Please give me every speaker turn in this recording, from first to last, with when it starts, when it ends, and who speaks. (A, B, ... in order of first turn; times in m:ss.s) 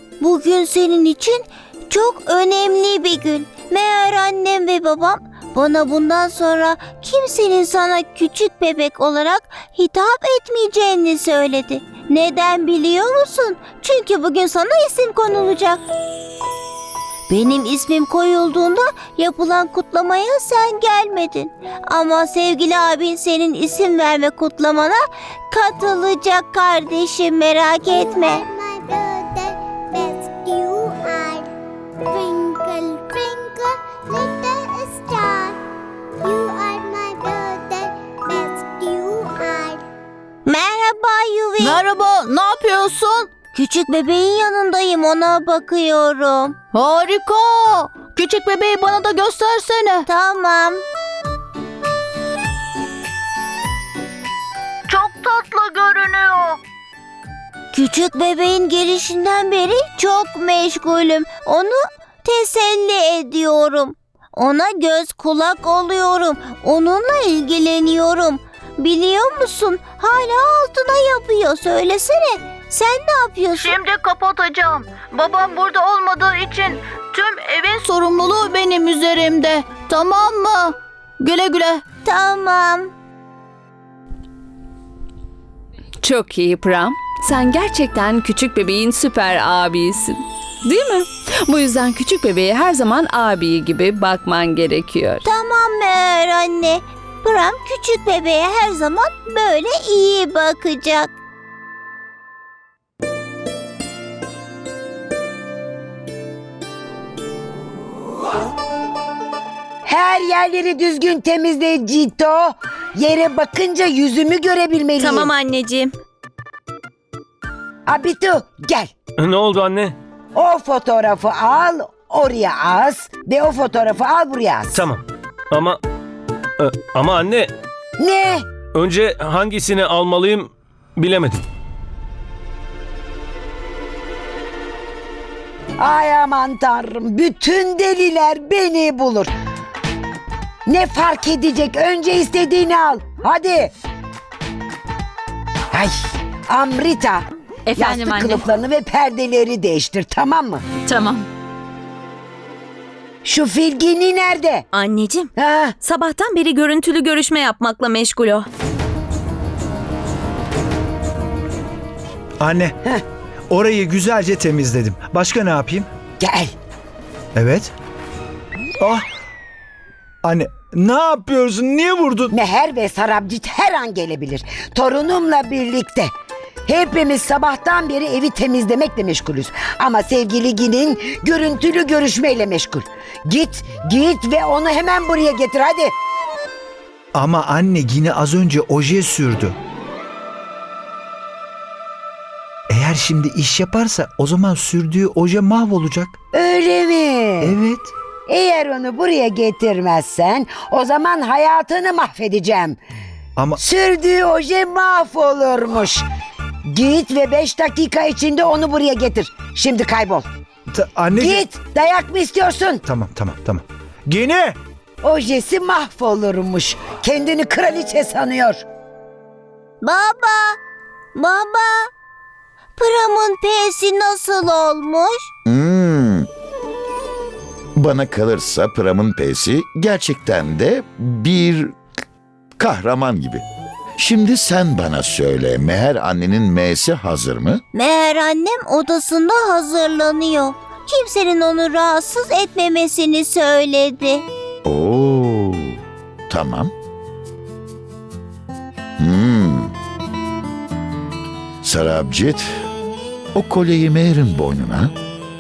0:00.2-0:15.8 A
0:17.3-0:28.4 A
0:27.9-0:31.5 B
0:32.1-0:35.6 B
0:36.2-0:39.8 B
0:40.5-0:41.8 A
0:41.6-0:43.3 C
0:43.5-0:46.6 A
0:46.7-0:50.1 C
0:50.1-0:50.8 A
0:54.9-0:56.6 C
0:57.7-1:13.8 A
1:13.6-1:21.8 C
1:22.0-1:22.9 A
1:26.0-1:35.3 D
1:35.2-1:41.1 A
1:49.8-1:55.3 E
1:55.0-1:55.9 F
1:57.9-1:58.9 E
1:59.2-2:00.0 G
2:00.4-2:04.8 E
2:04.7-2:05.8 G
2:06.6-2:07.5 G
2:08.0-2:08.4 E
2:08.7-2:11.4 G
2:15.8-2:19.3 E
2:20.7-2:23.7 E
2:25.7-2:26.0 E
2:26.5-2:27.2 E
2:27.7-2:28.4 F
2:27.8-2:30.6 E
2:30.9-2:31.3 F
2:33.2-2:34.6 E
2:34.7-2:35.3 F
2:35.4-2:35.8 E
2:35.8-2:38.5 F
2:42.4-2:42.8 H
2:43.5-2:45.9 H
2:46.2-2:46.5 E
2:47.4-2:47.7 H
2:48.8-2:49.1 H
2:50.2-2:52.3 H
2:52.3-2:56.1 E
2:56.7-3:05.9 E
3:07.2-3:09.6 H
3:12.7-3:16.2 H
3:16.3-3:17.6 E
3:17.4-3:17.9 H
3:18.3-3:22.8 E
3:23.4-3:23.6 H
3:23.6-3:26.0 E
3:26.7-3:30.3 E
3:30.7-3:31.4 H
3:31.2-3:32.8 E
3:32.9-3:34.6 H
3:35.0-3:38.6 E
3:39.8-3:40.6 A
3:41.2-3:41.9 A
3:42.8-3:45.3 A
3:45.5-3:46.3 I
3:47.8-3:51.8 I
3:52.6-3:53.4 I
3:54.0-3:57.6 I
3:57.7-4:04.2 A
4:04.6-4:06.7 I
4:09.0-4:09.7 I
4:11.6-4:12.6 I
4:13.3-4:14.9 I